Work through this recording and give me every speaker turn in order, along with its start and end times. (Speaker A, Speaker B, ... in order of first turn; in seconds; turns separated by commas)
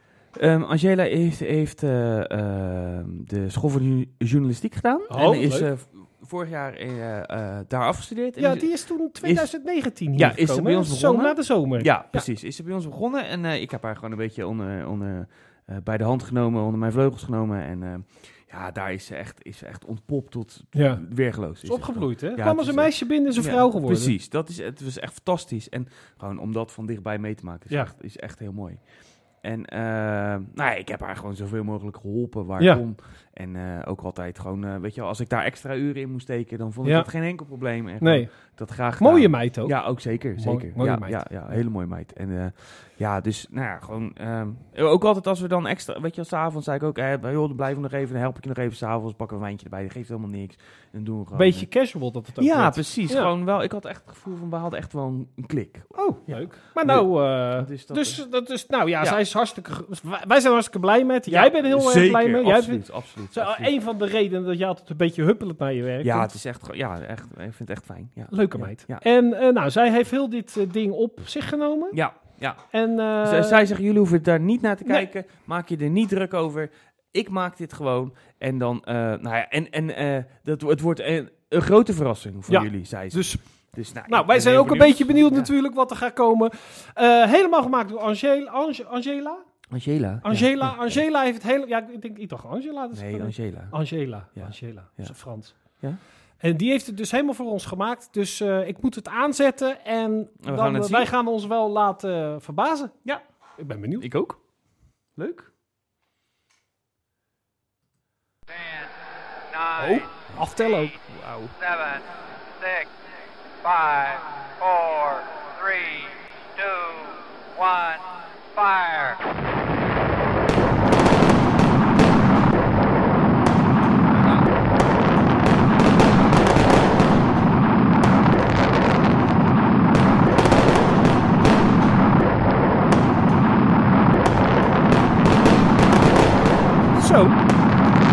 Speaker A: 0.3-9.5, Speaker B: 5.1-5.7, Speaker B: 8.4-12.2, Speaker A: 10.1-51.7, Speaker B: 20.7-21.0, Speaker B: 21.6-24.1, Speaker B: 32.6-32.8, Speaker B: 36.8-37.1, Speaker B: 38.0-41.6, Speaker B: 51.3-53.3, Speaker A: 52.4-58.2, Speaker B: 55.9-66.3, Speaker A: 61.3-63.7, Speaker A: 66.0-69.0, Speaker B: 68.3-72.0, Speaker A: 71.9-85.5, Speaker B: 72.7-73.7, Speaker B: 82.5-83.4, Speaker B: 84.1-89.4, Speaker A: 89.7-90.9, Speaker B: 90.2-95.8, Speaker A: 92.9-96.0, Speaker B: 96.4-102.9, Speaker A: 100.4-101.1, Speaker B: 103.6-104.1, Speaker A: 104.0-104.4, Speaker A: 105.1-105.5, Speaker C: 108.5-108.9, Speaker C: 109.5-110.1, Speaker B: 109.8-110.9, Speaker A: 111.1-111.5, Speaker C: 111.6-112.9, Speaker C: 113.6-119.2, Speaker A: 124.1-124.5, Speaker B: 137.0-137.4